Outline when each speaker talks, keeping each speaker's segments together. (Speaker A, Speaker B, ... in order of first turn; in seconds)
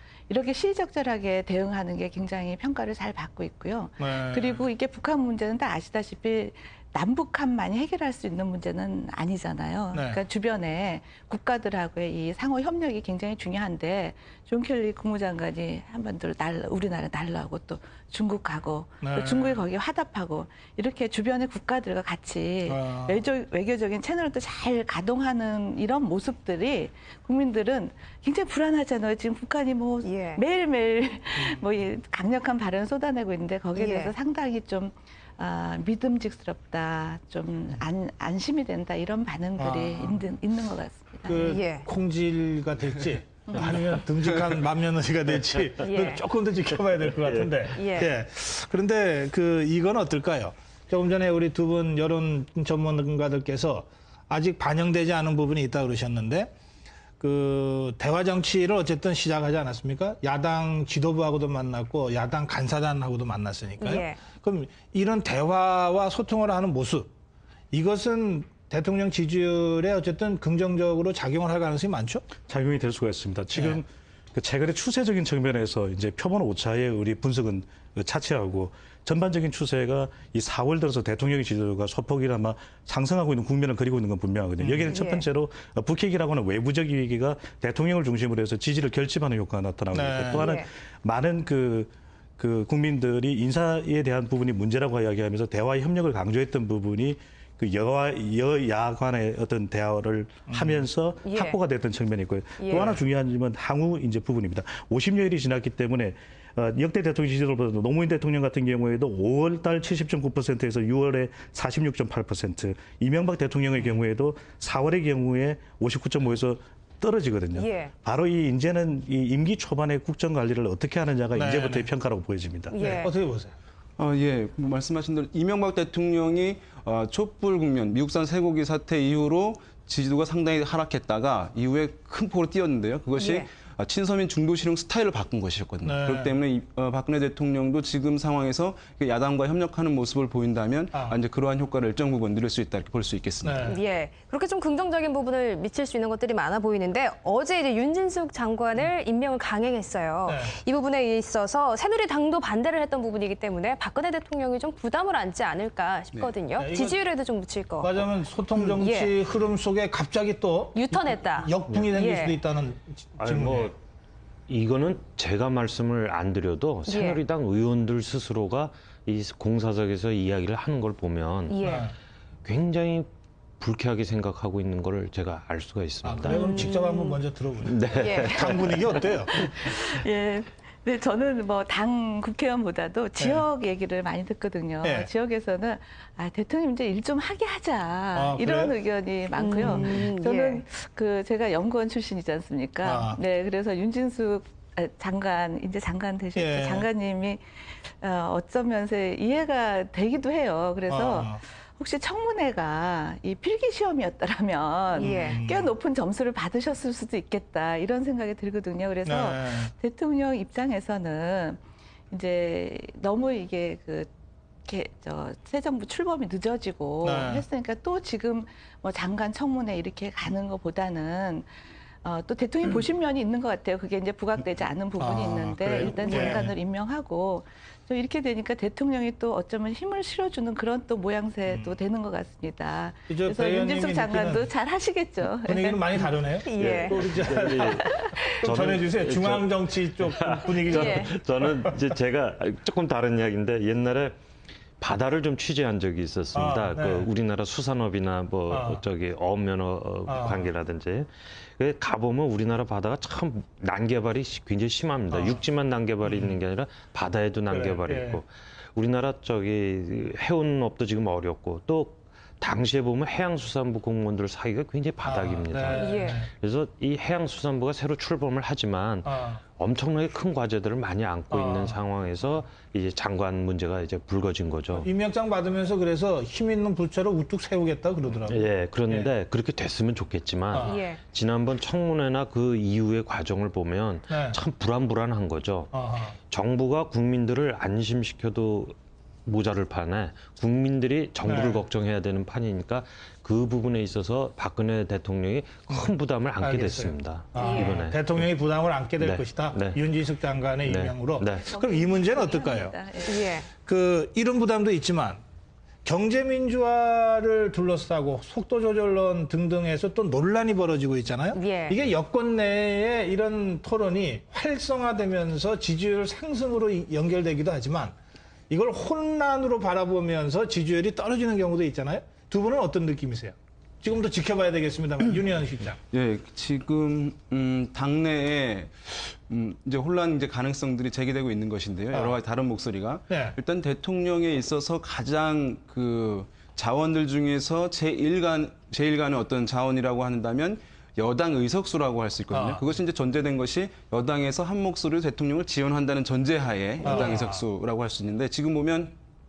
Speaker A: 0.3-41.6, 178.0-214.1, 214.7-221.5, 222.0-236.1, 237.5-238.3, 301.5-303.3
Speaker B: 4.0-4.6, 9.9-10.2, 19.0-19.6, 22.6-23.2, 39.6-40.2, 41.2-56.5, 57.2-67.1, 67.7-72.2, 73.5-73.8, 84.6-85.0, 89.9-90.5, 100.5-100.8, 102.7-103.0, 121.3-121.9, 122.8-123.5, 135.8-136.3, 140.9-141.2, 143.4-143.8, 150.3-150.6, 156.6-157.0, 157.8-163.7, 171.6-171.9, 176.0-179.3, 183.2-183.4, 184.8-185.1, 188.1-188.8, 189.5-190.1, 192.8-193.2, 196.3-196.9, 200.9-201.4, 205.0-205.7, 209.0-209.7, 217.0-217.4, 225.0-226.5, 231.5-231.7, 233.1-234.5, 235.4-241.8, 246.3-247.1, 248.5-248.8, 250.1-250.5, 255.1-255.4, 256.0-256.3, 257.5-258.2, 265.0-266.3, 269.0-269.4, 271.3-271.8, 274.7-279.1, 280.5-280.8, 284.1-284.4, 285.7-286.2, 291.2-291.6, 295.7-302.8, 303.6-305.2, 305.8-317.9, 318.5-325.8, 331.9-332.2, 333.1-333.4, 342.3-342.6, 346.8-347.4
Speaker C: 30.0-30.4, 33.7-34.1, 41.4-41.9, 45.8-46.2, 47.7-48.1, 63.8-64.2, 84.9-85.2, 90.3-90.7, 101.2-101.6, 102.6-103.0, 117.5-117.9, 122.7-123.1, 133.1-133.5, 143.5-158.1, 158.7-159.2, 160.7-162.4, 166.8-167.2, 171.5-171.9, 176.3-177.2, 178.0-178.4, 189.3-190.6, 204.9-205.4, 236.4-237.1, 240.6-241.0, 265.7-266.2, 280.6-281.0, 297.3-297.8, 303.1-303.5, 311.3-311.8
Speaker D: 72.5-122.8
Speaker E: 124.0-143.5, 325.9-348.9
Speaker F: 163.2-163.8, 164.5-171.6, 172.4-173.1, 173.6-176.4, 177.6-179.4, 236.7-244.2, 244.8-274.9, 278.1-285.7, 286.3-298.2, 299.0-299.8, 300.6-301.5